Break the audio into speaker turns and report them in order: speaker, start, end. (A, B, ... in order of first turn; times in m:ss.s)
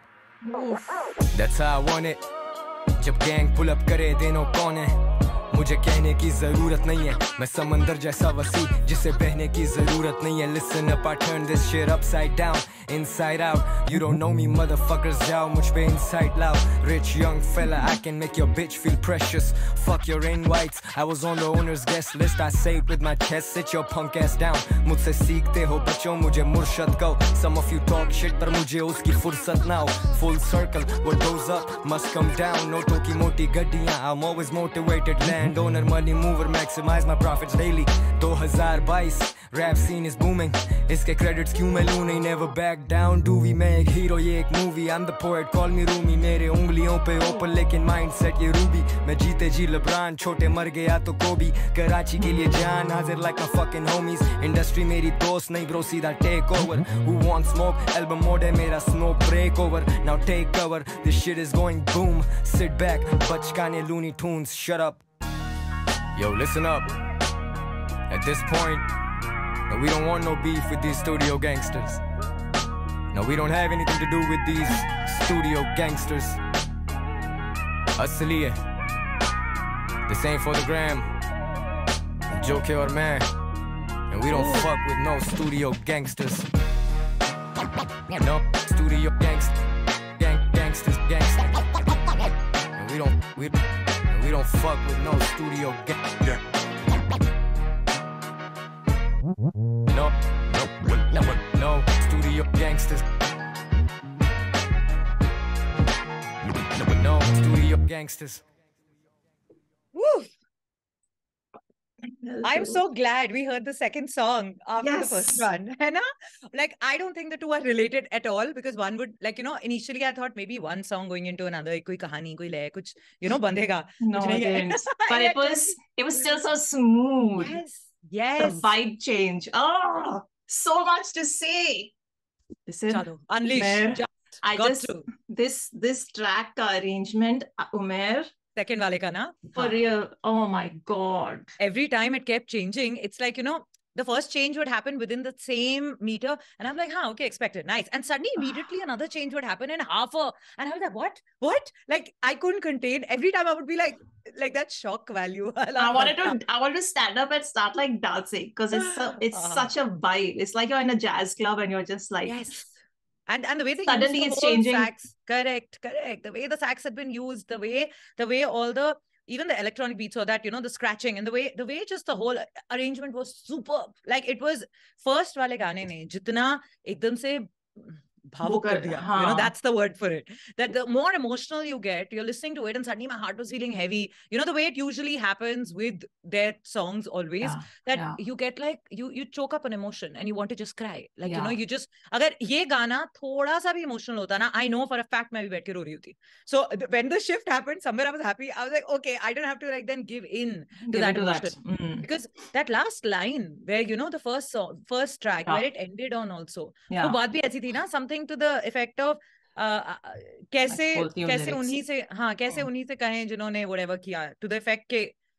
0:00.4-0:01.0 A
0:01.3-0:02.2 B
0:03.0-1:05.0 B
1:06.2-1:06.9 B
1:08.1-1:08.9 B
1:09.7-1:12.0 B
1:13.1-1:16.4 B
1:18.0-1:18.6 B
1:20.1-1:21.1 B
1:22.3-1:23.3 B
1:24.1-1:26.5 B
1:28.1-1:29.6 B
1:30.2-1:31.8 B
1:32.8-1:36.4 B
1:39.9-1:43.0 B
1:46.7-1:48.4 B
1:49.9-1:50.3 C
1:52.1-1:52.8 A
1:52.4-2:05.8 C
1:54.8-1:55.5 A
2:04.0-2:07.6 A
2:07.4-2:08.7 C
2:08.4-2:11.9 A
2:12.7-2:18.3 A
2:12.9-2:15.1 C
2:18.6-2:19.8 C
2:19.5-2:21.6 A
2:21.6-2:36.4 C
2:35.8-2:42.6 A
2:38.8-2:39.7 C
2:42.3-2:42.8 C
2:43.3-3:35.1 C
2:43.9-2:44.9 A
2:58.4-2:59.5 A
3:07.4-3:08.2 A
3:11.3-3:11.6 A
3:20.8-3:22.1 A
3:26.9-3:27.2 A
3:30.7-3:31.8 A